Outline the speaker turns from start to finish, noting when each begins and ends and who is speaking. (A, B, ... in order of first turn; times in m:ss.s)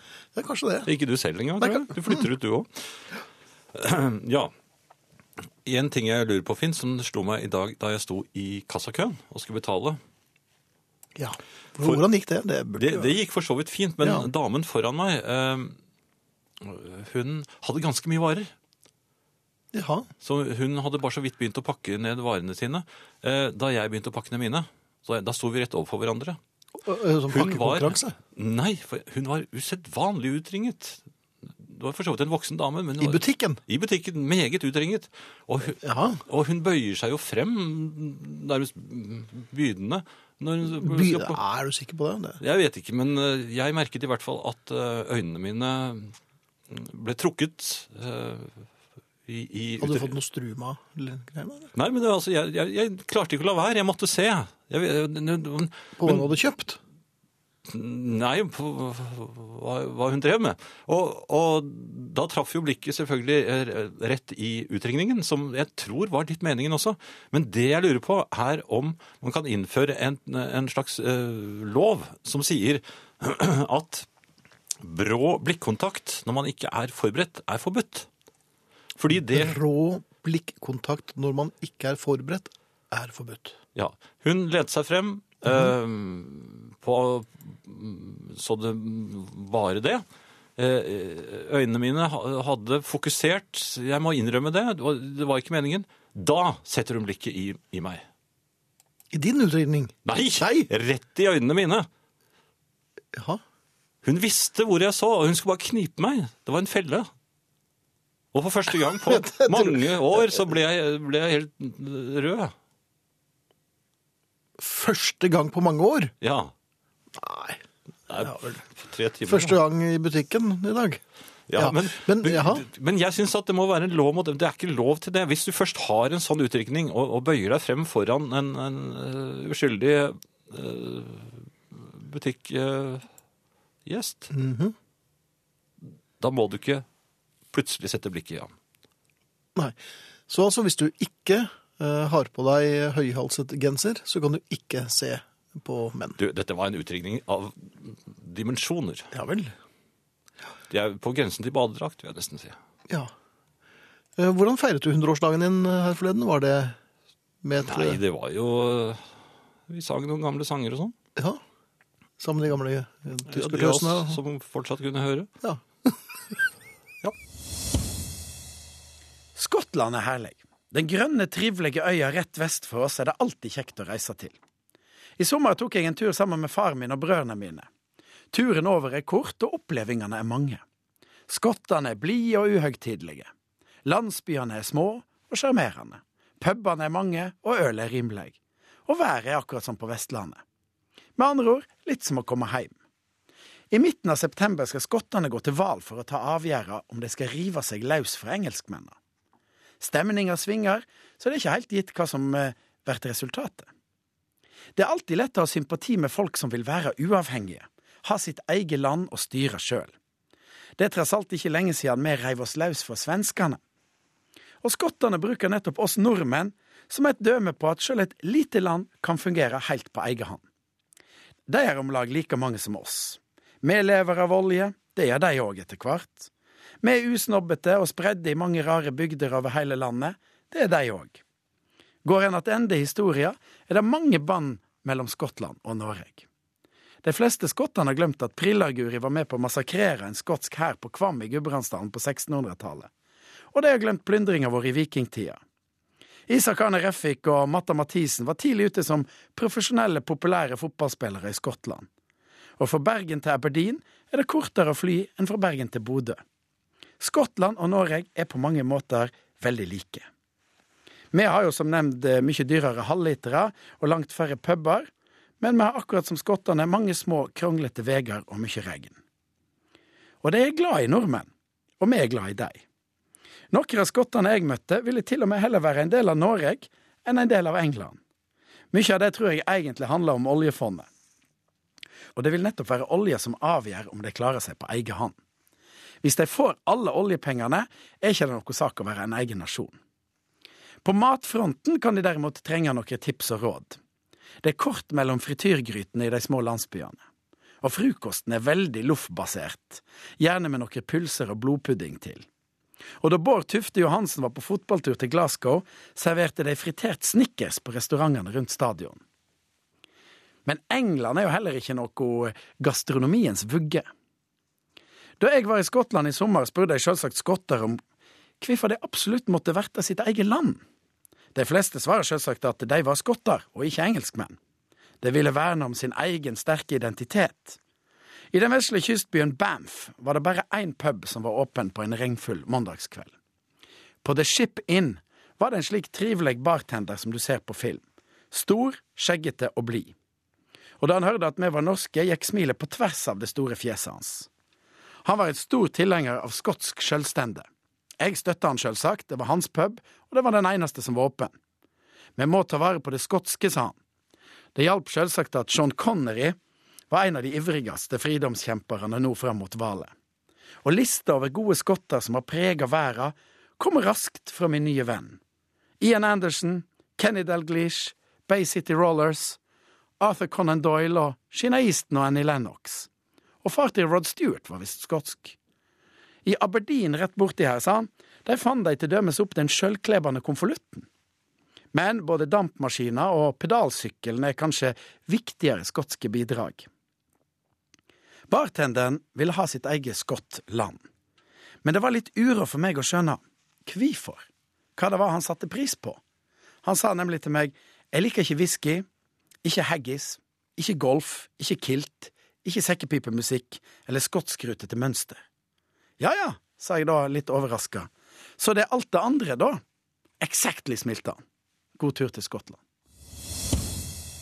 0:00.4-0:00.9 A
0:00.8-0:02.7 B
0:01.6-0:02.2 A
0:03.7-0:04.5 B
0:05.6-0:10.0 B
0:11.2-0:13.1 A
0:12.8-0:15.8 B
0:14.0-0:14.3 A
0:16.6-0:18.5 B
0:19.7-0:20.1 A
0:20.2-0:26.4 B
0:26.8-0:28.2 A
0:27.3-0:31.0 B
0:31.6-0:41.4 B
0:33.0-0:33.6 A
0:35.8-0:36.2 A
0:40.8-0:42.4 A
0:42.4-0:46.2 B
0:46.7-0:48.7 B
0:49.3-0:50.1 B
0:49.8-0:51.7 A
0:51.8-0:56.3 B
0:56.0-0:56.8 A
0:57.7-1:14.1 B
1:14.8-1:18.1 B
1:19.0-1:19.6 B
1:19.2-1:23.6 A
1:23.8-1:30.0 B
1:30.6-1:38.0 B
1:39.1-1:40.7 A
1:40.0-1:41.9 B
1:43.1-1:43.4 A
1:44.0-1:47.1 B
1:48.3-1:52.5 B
1:49.1-1:50.5 A
1:54.6-1:56.1 A
1:56.2-1:56.5 B
1:57.2-1:58.6 A
1:58.1-1:59.6 B
1:59.3-2:01.0 A
2:01.5-2:13.0 B
2:01.6-2:02.7 A
2:13.9-2:14.3 B
2:14.3-2:14.8 A
2:16.2-2:16.8 B
2:17.5-2:18.5 B
2:20.3-2:26.2 A
2:26.2-2:29.1 B
2:29.1-2:29.5 A
2:30.7-2:32.6 B
2:34.2-2:36.8 A
2:37.4-2:38.0 A
2:37.6-2:39.0 B
2:39.7-2:41.0 B
2:41.2-2:41.4 A
2:42.2-2:44.2 A
2:43.3-2:45.3 B
2:45.4-2:46.0 A
2:49.4-2:54.4 C
2:55.2-2:57.7 C
2:58.3-3:00.6 C
3:01.3-3:03.3 C
3:03.8-3:10.4 C
3:11.2-3:12.7 C
3:13.7-3:19.0 C
3:19.8-3:23.7 C
3:24.8-3:29.9 C
3:30.8-3:33.6 C
3:34.6-3:40.4 C
3:41.5-3:46.3 C
3:46.8-3:51.2 C
3:52.0-3:56.2 C
3:57.0-4:02.9 C
4:03.5-4:05.4 C
4:06.3-4:11.9 C
4:12.6-4:16.2 C
4:17.0-4:20.1 C
4:21.1-4:24.9 C
4:25.4-4:29.0 C
4:30.2-4:32.6 C
4:33.5-4:38.0 C
4:38.7-4:40.9 C
4:42.2-4:45.2 C
4:46.0-4:49.8 C
4:50.8-4:53.8 C
4:54.4-4:57.0 C
4:57.6-5:02.3 C
5:03.0-5:09.0 C
5:10.4-5:13.8 C
5:15.2-5:17.8 C
5:18.4-5:20.6 C
5:21.4-5:24.4 C
5:25.0-5:27.6 C
5:28.3-5:33.1 C
5:34.0-5:39.9 C
5:40.8-5:44.3 C
5:45.0-5:47.5 C
5:48.0-5:51.3 C
5:52.2-5:53.8 C
5:54.6-5:56.4 C
5:56.9-5:59.9 C
6:00.6-6:05.2 C
6:05.8-6:09.4 C
6:10.0-6:12.9 C
6:13.4-6:15.4 C
6:16.2-6:20.9 C
6:21.7-6:26.7 C
6:28.3-6:30.8 C
6:31.6-6:36.0 C
6:36.6-6:38.9 C
6:39.4-6:45.2 C
6:46.0-6:49.6 C
6:50.2-6:51.2 C
6:51.8-6:52.6 C